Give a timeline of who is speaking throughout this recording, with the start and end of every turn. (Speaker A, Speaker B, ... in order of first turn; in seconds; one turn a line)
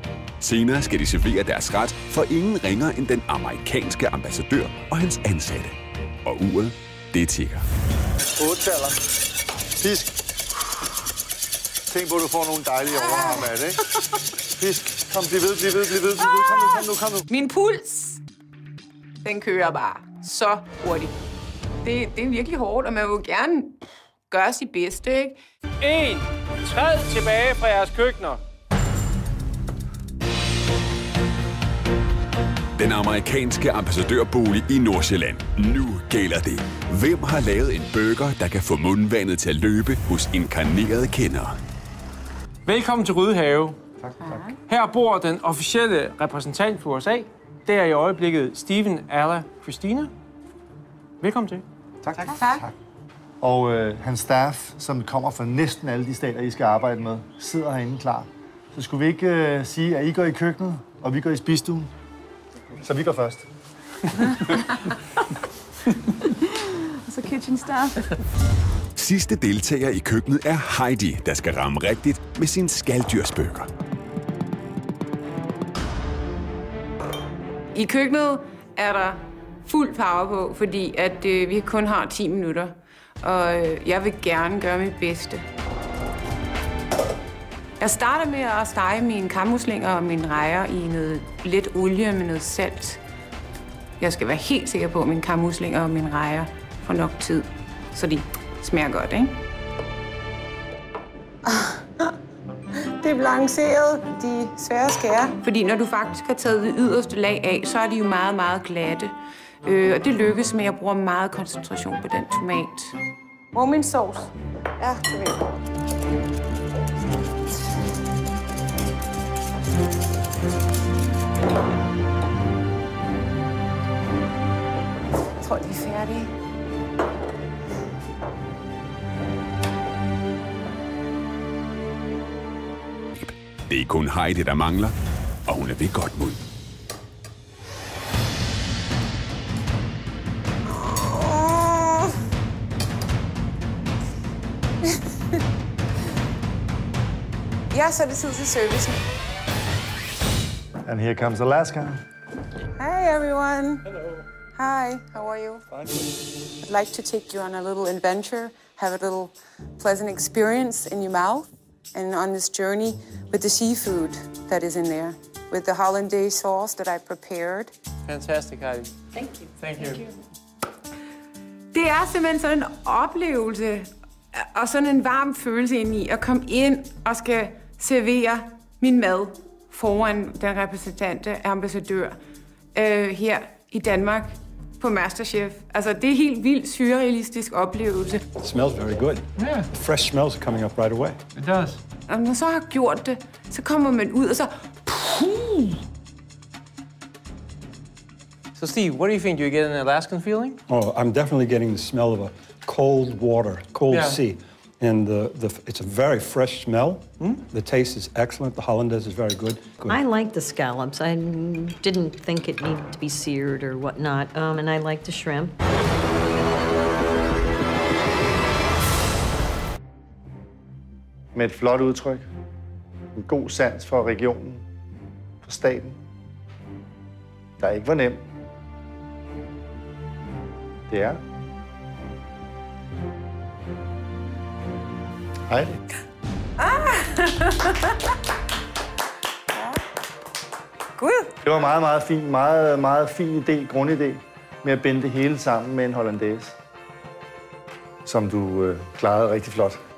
Speaker A: 0.4-7.6
Speaker B: 8.4-9.0
Speaker B: 9.8-10.1
Speaker B: 11.9-13.8
Speaker C: 12.9-13.5
Speaker B: 14.5-17.2
Speaker C: 16.3-18.2
Speaker C: 19.2-21.2
Speaker C: 21.8-25.4
Speaker D: 25.8-28.4
Speaker A: 32.8-41.5
Speaker D: 42.6-43.8
Speaker C: 44.2-44.6
Speaker D: 44.6-50.1
Speaker D: 51.2-51.6
Speaker C: 52.3-52.7
Speaker B: 53.4-61.9
Speaker B: 62.8-63.4
Speaker C: 66.2-68.1
Speaker A: 69.0-73.7
Speaker C: 77.7-85.4
Speaker C: 87.8-93.0
Speaker C: 94.0-99.4
Speaker C: 101.4-102.1
Speaker C: 102.9-109.1
Speaker C: 109.6-113.0
Speaker C: 113.5-115.5
Speaker C: 125.4-126.3
Speaker A: 133.1-134.9
Speaker A: 135.5-136.4
Speaker C: 140.7-142.1
Speaker C: 147.7-149.0
Speaker B: 150.8-152.0
Speaker C: 152.8-153.8
Speaker C: 154.5-155.7
Speaker C: 156.6-167.7
Speaker D: 168.1-168.9
Speaker D: 169.6-170.1
Speaker C: 171.7-182.2
Speaker C: 182.7-188.2
Speaker E: 188.4-191.2
Speaker D: 189.4-189.7
Speaker D: 191.4-191.8
Speaker C: 192.1-195.8
Speaker D: 198.6-200.6
Speaker E: 200.7-210.0
Speaker D: 203.9-204.2
Speaker F: 209.9-215.5
Speaker B: 221.3-222.2
Speaker B: 223.2-224.6
Speaker B: 225.4-226.0
Speaker B: 227.6-228.2
Speaker B: 230.9-231.2
Speaker B: 235.5-235.7
Speaker C: 236.6-238.0
Speaker C: 239.5-239.8
Speaker C: 241.0-241.3
Speaker B: 241.4-246.5
Speaker B: 248.0-249.8